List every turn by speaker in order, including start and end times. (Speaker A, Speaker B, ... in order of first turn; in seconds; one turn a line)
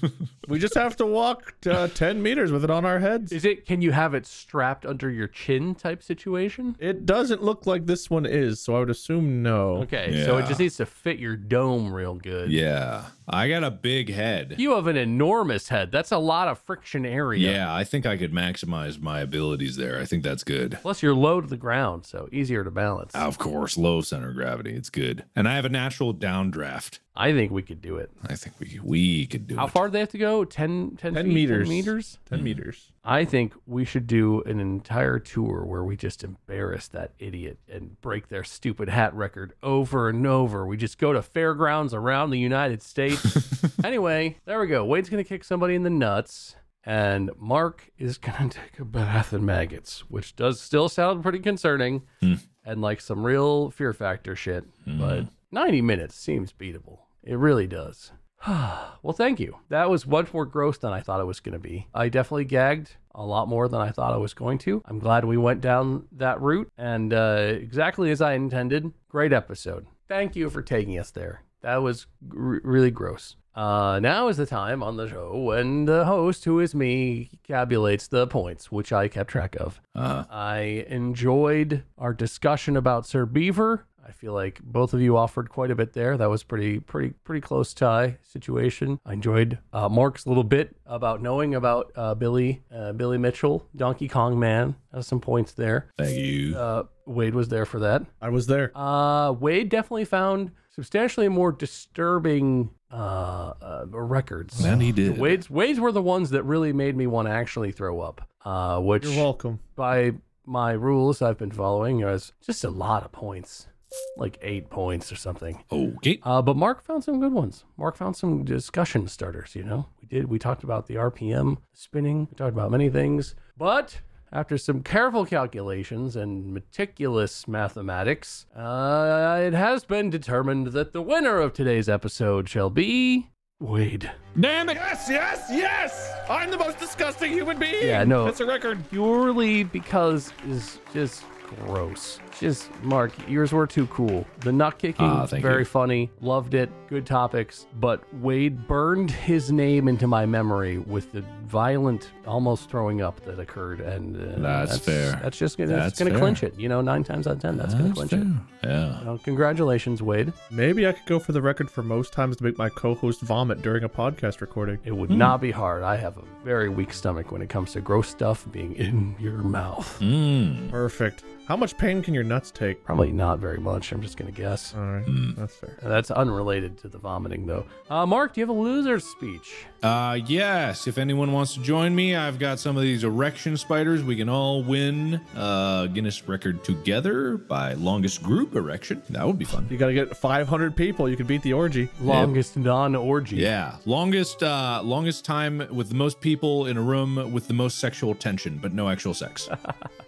Speaker A: 0.5-3.4
Speaker B: 3.3-6.8
Speaker A: 6.8-9.9
Speaker B: 9.7-12.6
Speaker C: 10.1-10.7
Speaker C: 12.4-14.6
Speaker B: 14.6-17.6
Speaker C: 17.4-20.8
Speaker B: 20.8-23.2
Speaker C: 23.1-27.0
Speaker B: 27.1-28.1
Speaker C: 28.2-29.8
Speaker B: 29.6-32.2
Speaker A: 31.1-32.9
Speaker C: 32.3-32.6
Speaker B: 33.0-52.1
Speaker B: 52.6-95.9
Speaker C: 54.9-55.3
Speaker C: 80.0-80.3
Speaker C: 96.0-96.6
Speaker B: 96.5-98.1
Speaker A: 98.2-98.7
Speaker B: 98.8-115.6
Speaker A: 104.6-104.9
Speaker C: 104.6-105.4
Speaker A: 109.0-109.6
Speaker C: 115.7-116.2
Speaker B: 116.2-134.2
Speaker C: 134.4-134.8
Speaker A: 134.8-138.9
Speaker B: 137.8-158.3
Speaker C: 145.0-145.7
Speaker C: 154.4-156.4
Speaker C: 157.5-159.1
Speaker B: 159.0-160.4
Speaker A: 160.5-164.8
Speaker B: 164.8-170.0
Speaker C: 165.1-165.4
Speaker C: 170.0-170.8
Speaker A: 170.7-172.8
Speaker B: 172.9-174.8
Speaker A: 174.8-175.8
Speaker C: 175.1-175.4
Speaker B: 175.8-179.7
Speaker C: 179.8-189.7
Speaker A: 189.7-192.0
Speaker B: 192.0-193.5
Speaker C: 192.1-192.3
Speaker C: 193.3-199.5